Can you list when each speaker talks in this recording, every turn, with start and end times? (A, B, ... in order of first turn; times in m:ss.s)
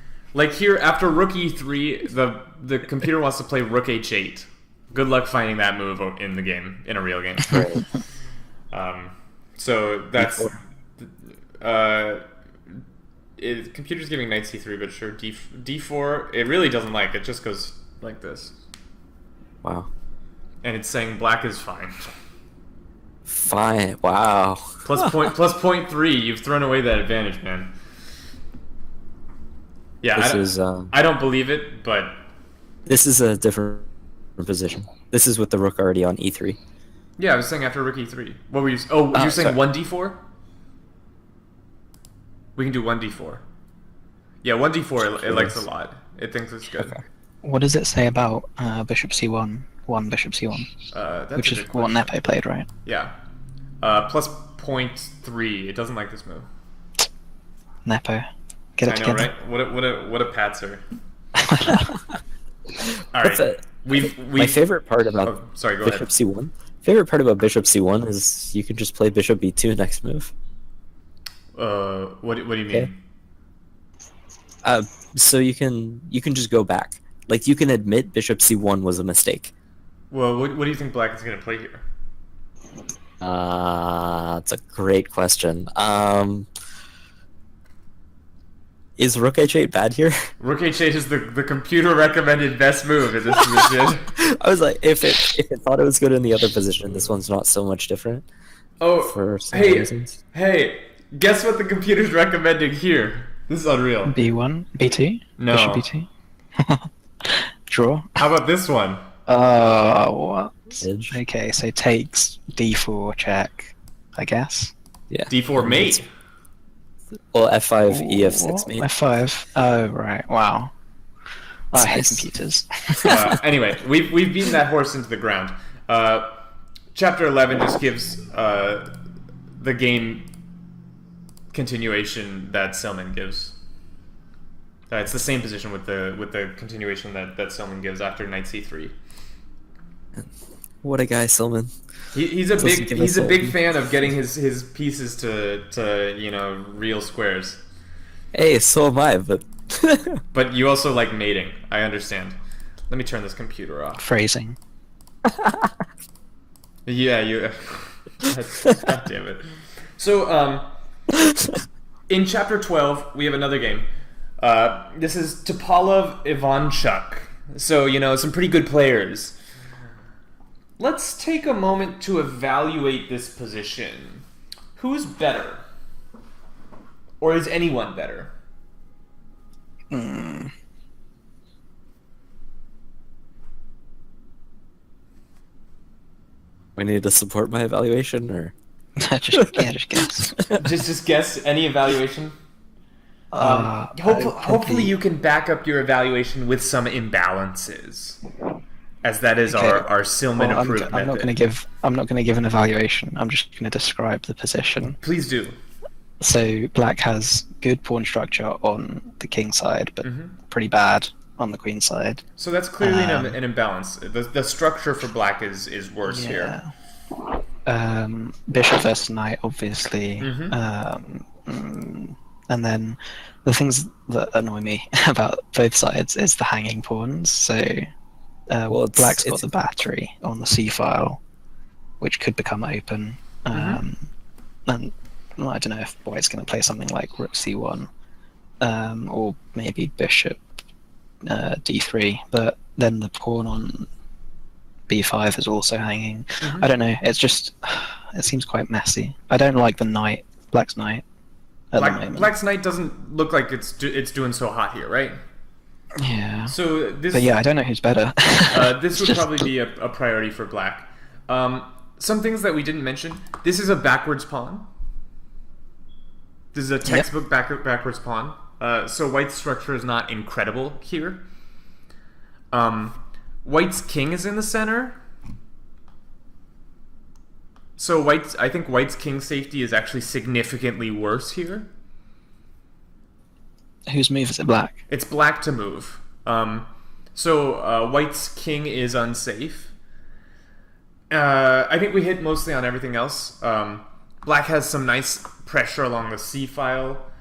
0:00.3-0:07.8 A
0:07.5-0:07.8 B
0:08.7-0:12.2 A
0:10.2-0:10.6 B
0:13.4-0:18.6 A
0:19.6-0:19.9 B
0:20.6-0:22.0 A
0:23.3-0:24.8 B
0:24.8-0:27.7 A
0:30.0-0:32.2 A
0:30.1-0:30.9 B
0:32.9-0:36.6 B
0:37.2-0:40.2 A
0:39.1-0:39.6 B
0:42.6-0:43.4 A
0:44.4-0:47.0 A
0:45.1-0:45.6 B
0:47.4-0:50.7 C
0:50.9-0:52.1 A
0:51.4-0:52.7 C
0:52.8-0:53.1 A
0:53.8-0:56.5 A
0:57.8-0:58.2 C
0:58.8-0:59.3 C
0:58.8-1:00.8 A
1:01.4-1:01.9 C
1:03.1-1:04.6 A
1:03.2-1:10.3 B
1:05.2-1:06.1 A
1:11.6-1:13.0 A
1:14.6-1:19.5 B
1:20.1-1:21.8 A
1:23.2-1:26.5 B
1:29.0-1:30.2 B
1:30.4-1:34.1 A
1:34.2-1:38.3 B
1:38.8-1:44.2 A
1:39.0-1:40.2 B
1:44.1-1:46.1 C
1:45.4-1:45.9 A
1:46.6-1:48.2 C
1:48.2-1:49.0 A
1:49.3-1:54.7 C
1:50.8-1:51.2 B
1:55.1-1:56.0 B
1:55.3-1:56.1 A
1:57.3-1:58.9 B
1:57.9-2:00.7 C
2:01.7-2:03.3 C
2:01.8-2:02.3 B
2:03.0-2:06.4 A
2:06.9-2:08.9 A
2:09.6-2:10.3 A
2:11.5-2:13.6 A
2:14.9-2:19.0 A
2:20.8-2:21.7 B
2:22.1-2:27.6 A
2:22.6-2:23.6 B
2:28.3-2:30.2 B
2:30.3-2:32.4 A
2:32.9-2:34.0 A
2:34.0-2:34.6 C
2:35.4-2:35.7 B
2:36.9-2:39.4 A
2:40.0-2:40.7 A
2:42.1-2:43.9 A
2:44.4-2:49.4 A
2:50.8-2:54.2 A
2:54.8-2:55.6 A
2:57.2-2:58.3 A
2:59.9-3:00.5 C
3:06.8-3:08.5 B
3:09.0-3:10.4 C
3:09.4-3:09.7 B
3:10.5-3:12.4 A
3:13.3-3:14.9 C
3:13.4-3:18.2 A
3:19.0-3:21.3 A
3:19.5-3:25.0 C
3:25.0-3:25.6 A
3:26.2-3:32.2 C
3:30.0-3:30.4 A
3:32.4-3:36.6 A
3:32.8-3:33.4 C
3:36.0-3:36.7 C
3:37.7-3:47.9 C
3:40.2-3:40.6 A
3:48.5-3:51.2 C
3:48.7-3:49.4 B
3:52.0-3:54.1 C
3:53.5-3:53.8 A
3:54.7-3:57.9 C
3:58.6-4:00.4 C
4:01.2-4:03.9 C
4:04.9-4:11.0 C
4:06.4-4:06.7 A
4:11.7-4:12.3 C
4:11.8-4:15.2 A
4:16.0-4:16.6 C
4:16.5-4:17.3 A
4:17.1-4:19.5 C
4:18.5-4:24.7 A
4:26.5-4:31.2 A
4:32.5-4:35.0 A
4:37.8-4:41.7 A
4:43.9-4:44.8 C
4:44.9-4:49.7 A
4:51.1-4:57.1 A